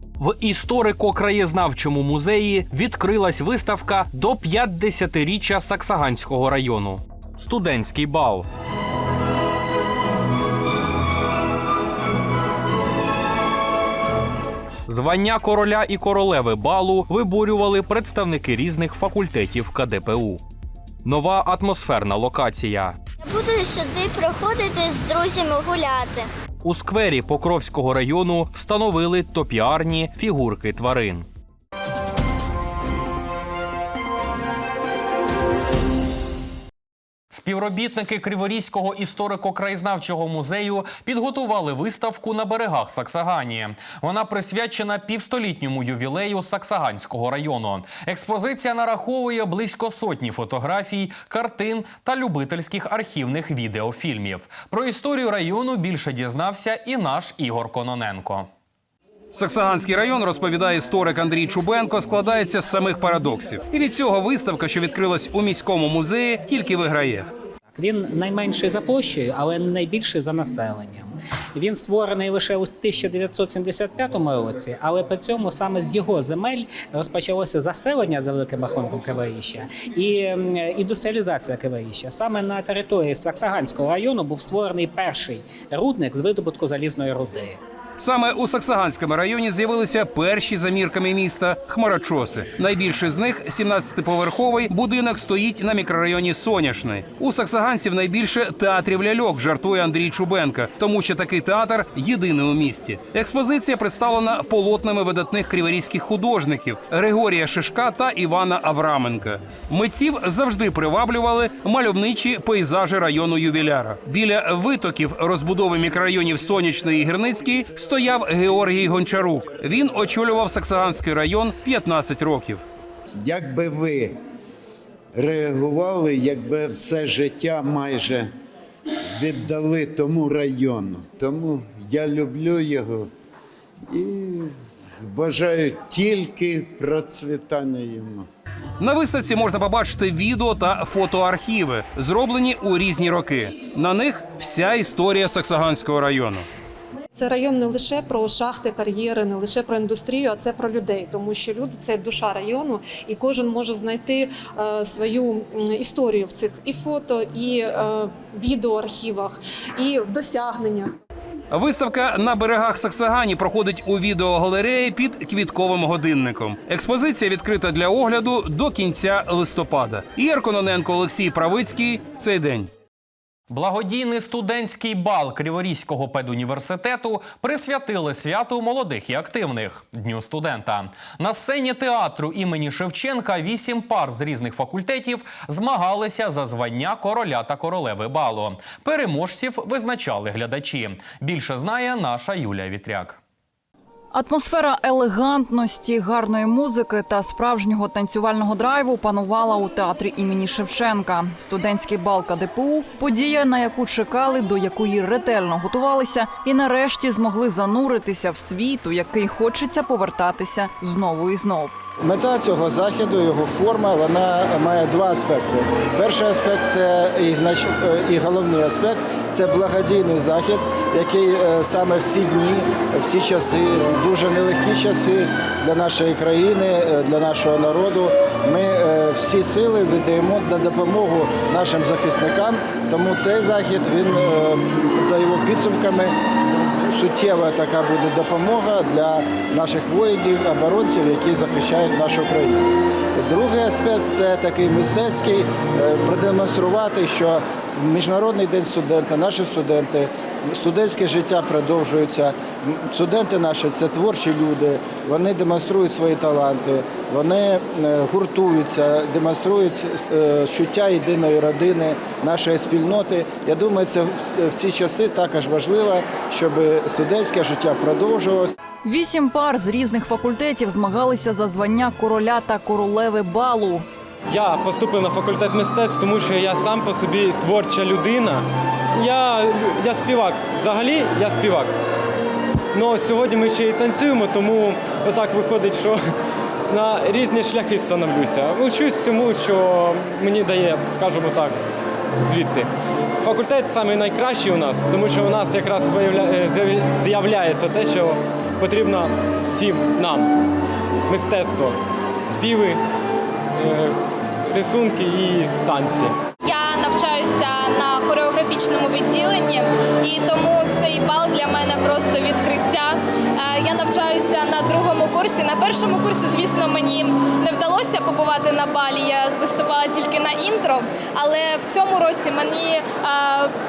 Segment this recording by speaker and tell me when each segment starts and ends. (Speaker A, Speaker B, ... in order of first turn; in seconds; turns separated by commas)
Speaker A: 0.2-8.5, Speaker A: 14.9-20.4, Speaker A: 21.0-23.0, Speaker B: 23.2-26.3, Speaker A: 26.6-31.3, Speaker A: 37.3-58.5, Speaker C: 59.3-67.3, Speaker D: 67.7-87.6, Speaker C: 88.0-122.6, Speaker E: 123.2-124.2, Speaker E: 125.1-128.3, Speaker E: 129.2-133.1, Speaker E: 133.9-138.3, Speaker C: 138.8-146.4, Speaker F: 147.1-160.9, Speaker C: 161.5-172.7, Speaker A: 173.5-193.2, Speaker G: 194.1-211.7, Speaker H: 212.0-236.1, Speaker H: 236.7-242.6, Speaker H: 243.2-268.5, Speaker G: 268.8-273.8, Speaker I: 274.3-281.7, Speaker I: 282.7-286.0, Speaker I: 286.7-291.6, Speaker I: 292.2-292.7, Speaker I: 293.2-300.3, Speaker I: 301.1-302.8, Speaker I: 303.5-303.9, Speaker I: 304.5-306.1, Speaker J: 306.4-323.5